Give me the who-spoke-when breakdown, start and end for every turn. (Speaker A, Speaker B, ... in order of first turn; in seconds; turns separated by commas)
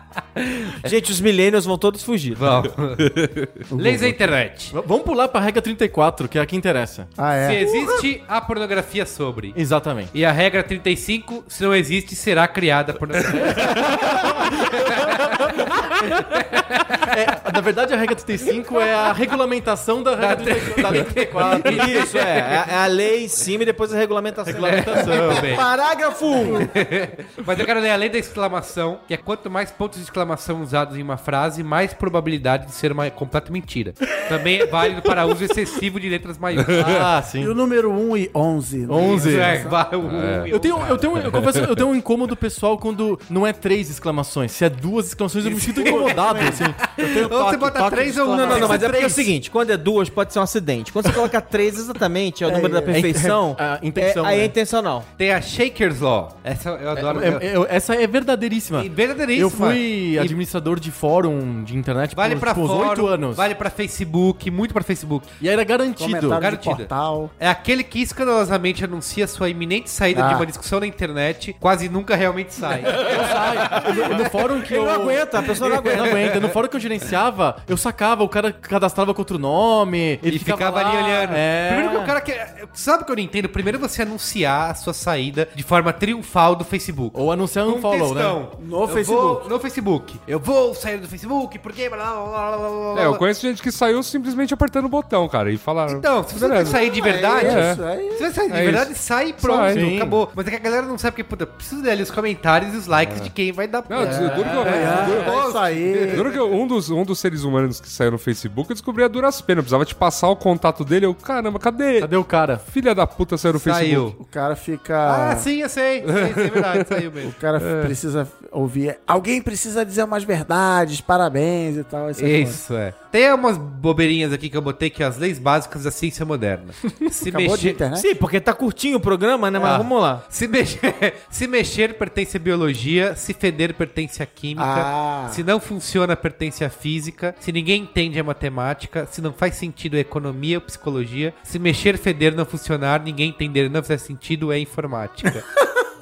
Speaker A: 0.3-0.9, Speaker B: 0.8-2.7, Speaker A: 2.3-4.8, Speaker C: 3.7-4.3, Speaker D: 4.7-7.1, Speaker C: 7.2-8.0, Speaker A: 7.4-17.1, Speaker D: 9.5-10.1, Speaker D: 13.4-16.3, Speaker D: 16.9-22.7, Speaker A: 20.2-22.1, Speaker B: 21.6-26.7, Speaker D: 24.5-25.6, Speaker A: 24.5-25.7, Speaker D: 26.3-26.7, Speaker A: 26.5-37.0, Speaker E: 36.6-37.1, Speaker D: 36.7-37.5, Speaker C: 37.4-39.8, Speaker D: 38.9-39.7, Speaker A: 39.0-41.1, Speaker E: 40.0-40.5, Speaker D: 40.5-47.3, Speaker E: 41.1-41.6, Speaker C: 45.4-48.8, Speaker B: 45.9-46.4, Speaker A: 46.8-48.8, Speaker B: 48.3-55.1, Speaker D: 48.4-49.3, Speaker C: 52.4-53.2, Speaker D: 52.9-54.5, Speaker A: 55.2-57.5, Speaker D: 56.9-63.4, Speaker A: 58.7-60.4, Speaker A: 62.1-65.3, Speaker D: 65.4-66.4, Speaker C: 66.0-67.3, Speaker A: 66.4-73.9, Speaker C: 70.1-70.5, Speaker D: 72.9-82.2, Speaker B: 74.6-76.4, Speaker A: 80.2-93.2, Speaker D: 87.1-88.4, Speaker C: 88.6-89.5, Speaker E: 92.9-96.8, Speaker A: 95.9-106.4, Speaker C: 96.7-98.3, Speaker E: 97.4-97.8, Speaker E: 98.5-99.8, Speaker D: 99.7-100.2, Speaker E: 103.0-103.3, Speaker E: 103.9-105.3, Speaker C: 104.0-106.3, Speaker D: 104.7-105.3, Speaker E: 106.1-114.1, Speaker D: 112.0-112.7, Speaker A: 113.5-114.2, Speaker C: 114.2-115.5, Speaker A: 115.0-117.3, Speaker E: 116.1-117.0, Speaker C: 117.2-122.6, Speaker E: 117.6-118.0, Speaker A: 122.2-127.8, Speaker C: 127.2-128.1, Speaker B: 127.9-130.2, Speaker A: 129.6-145.4, Speaker C: 134.6-135.4